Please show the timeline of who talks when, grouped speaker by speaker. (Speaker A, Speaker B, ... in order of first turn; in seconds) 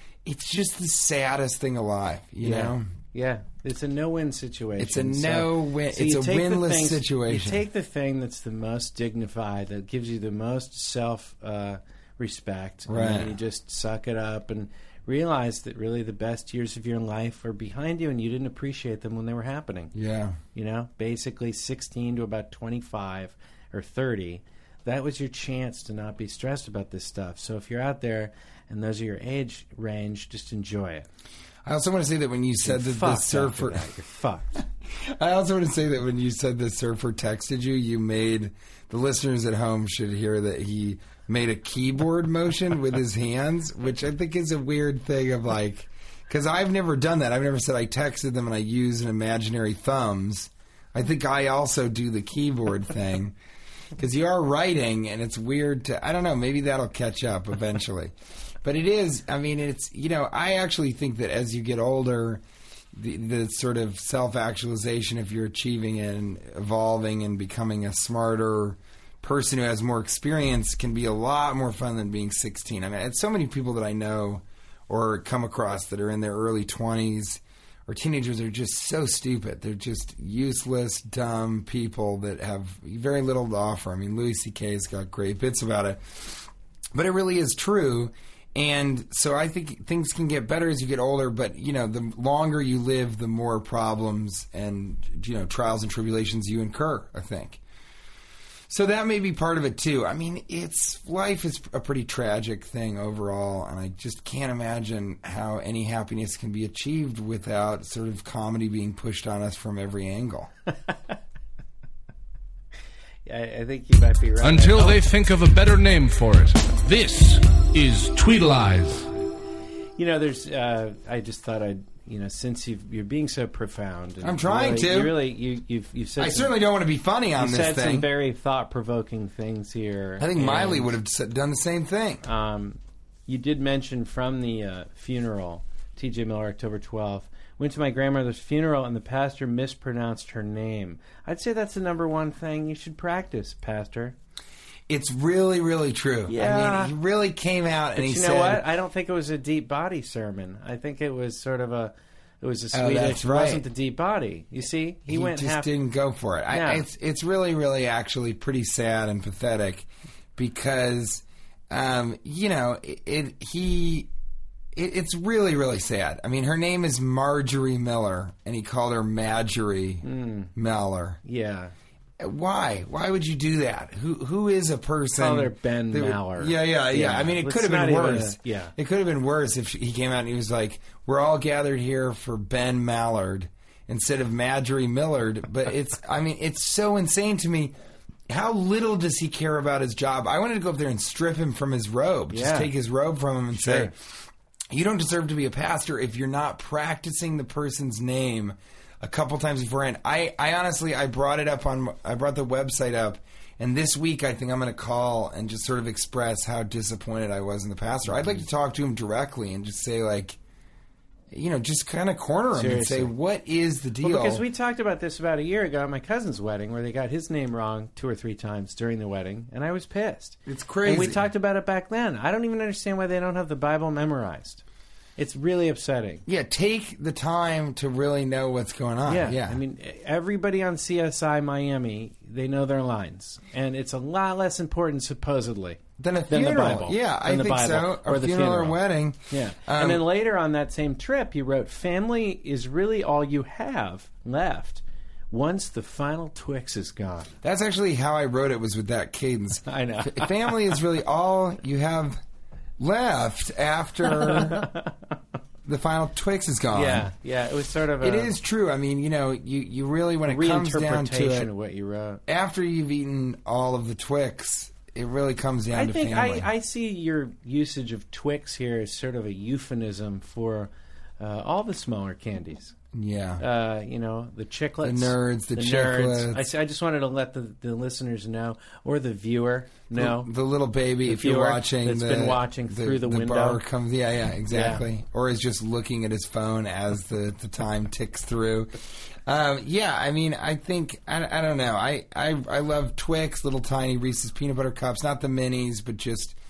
Speaker A: 0.2-2.9, 4.8-7.6, 12.9-13.3, 19.9-20.4, 31.6-33.9, 34.9-53.4, 54.0-62.4, 62.9-97.6, 98.7-110.5, 124.2-125.2, 126.2-128.1, 130.2-132.2, 144.9-148.7, 152.7-153.7, 155.1-164.1, 164.7-171.2, 172.2-187.8, 188.3-210.4, 211.3-214.4, 220.5-221.2, 226.3-229.6, 236.0-240.0, 247.4-252.2, 252.8-254.7, 255.7-257.1, 258.0-261.5, 262.3-266.5, 272.9-273.4, 274.8-276.4, 279.9-296.4
Speaker B: 2.4-19.9, 20.6-31.1, 32.6-34.5, 113.3-115.0, 120.0-126.5, 127.4-130.9, 132.2-144.2, 146.3-146.9, 148.0-155.7, 156.5-156.9, 170.0-170.5, 171.2-171.7, 175.2-178.7, 192.3-192.7, 193.5-193.9, 208.1-208.4, 212.5-213.1, 214.0-224.6, 225.2-226.2, 229.1-238.8, 239.3-247.3, 249.7-250.7, 254.2-254.9, 256.7-258.3, 260.3-262.2, 265.7-272.8, 273.4-280.3, 281.1-283.6, 284.5-284.9
Speaker C: 114.4-119.1